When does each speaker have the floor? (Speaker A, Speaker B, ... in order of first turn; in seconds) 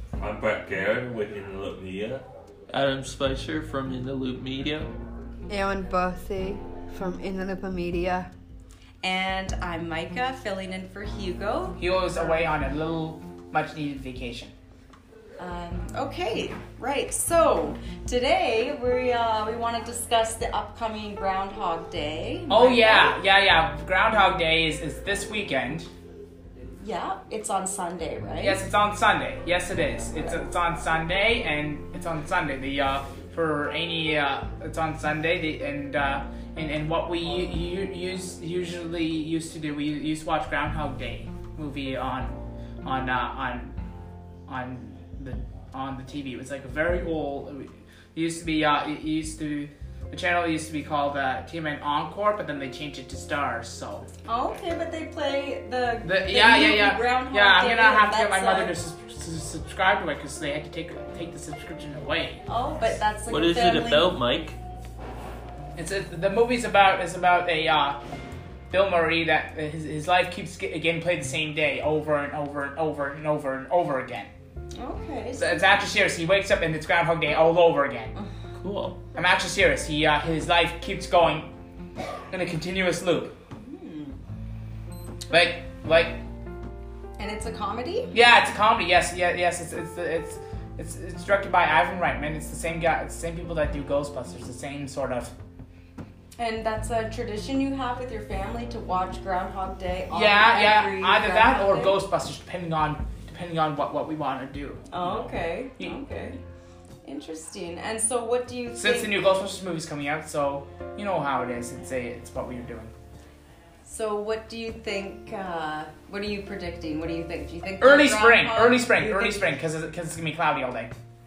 Speaker A: 0.2-2.2
Speaker B: 2.7-4.9, 63.3-64.6, 78.6-79.0
Speaker C: 5.5-8.3
Speaker D: 9.0-11.8, 15.4-23.1, 26.8-28.6, 54.2-58.7, 62.5-64.1, 74.7-75.7, 83.5-84.2, 87.2-88.1, 96.4-102.0, 104.9-106.4, 107.0-109.2, 113.8-119.4
Speaker E: 11.8-14.5, 22.5-25.9, 28.4-43.7, 44.5-54.1, 56.0-62.4, 65.8-68.0, 68.7-74.3, 75.4-78.1, 79.1-81.5, 82.3-83.3, 85.3-86.2, 88.1-95.3, 100.1-104.9, 108.8-112.9, 117.8-120.9